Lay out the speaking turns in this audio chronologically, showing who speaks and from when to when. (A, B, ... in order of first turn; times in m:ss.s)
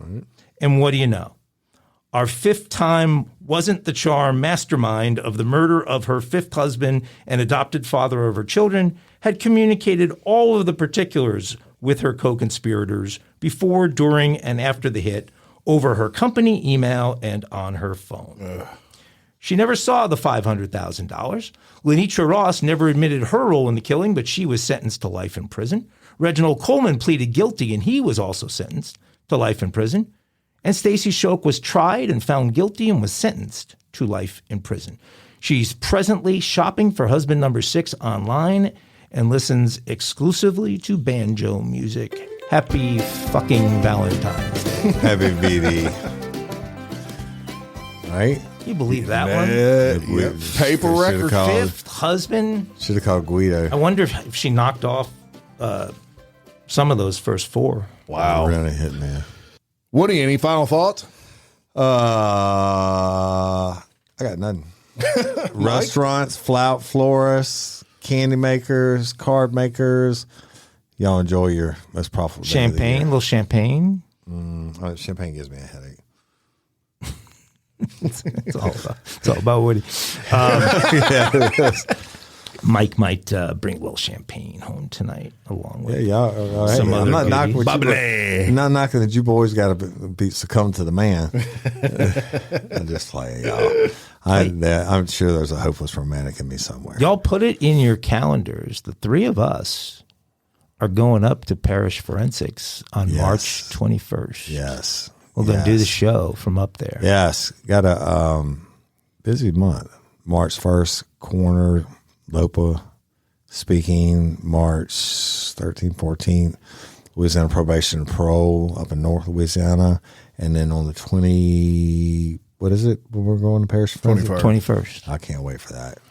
0:00.6-0:01.3 A
0:02.1-0:18.6 A
0:19.4-0:30.1 A
0:30.6-0:45.0 A
0:44.9-0:46.0 B
0:48.1-0:48.4 B
0:48.6-0:49.7 A
0:49.0-0:51.4 C
0:49.7-0:51.7 B
0:51.3-0:52.7 A
0:52.8-0:53.8 B
0:53.7-0:55.9 A
0:56.7-0:57.9 A
0:58.1-0:58.6 C
0:58.2-0:59.2 B
0:59.9-1:01.1 C
1:01.7-1:10.2 B
1:05.6-1:05.8 C
1:11.0-1:13.1 B
1:12.4-1:14.0 A
1:14.2-1:16.0 B
1:18.0-1:21.7 A
1:20.4-1:21.9 B
1:22.6-1:26.1 A
1:25.8-1:37.1 B
1:26.6-1:27.8 A
1:26.7-1:28.6 C
1:37.0-1:40.0 A
1:40.8-1:44.6 A
1:43.0-1:43.8 B
1:44.5-1:45.9 B
1:45.4-1:47.1 A
1:47.0-1:48.6 B
1:49.2-1:52.8 B
1:53.5-1:56.6 B
1:57.1-2:04.5 B
2:04.0-2:04.6 C
2:04.3-2:05.0 A
2:05.0-2:06.0 B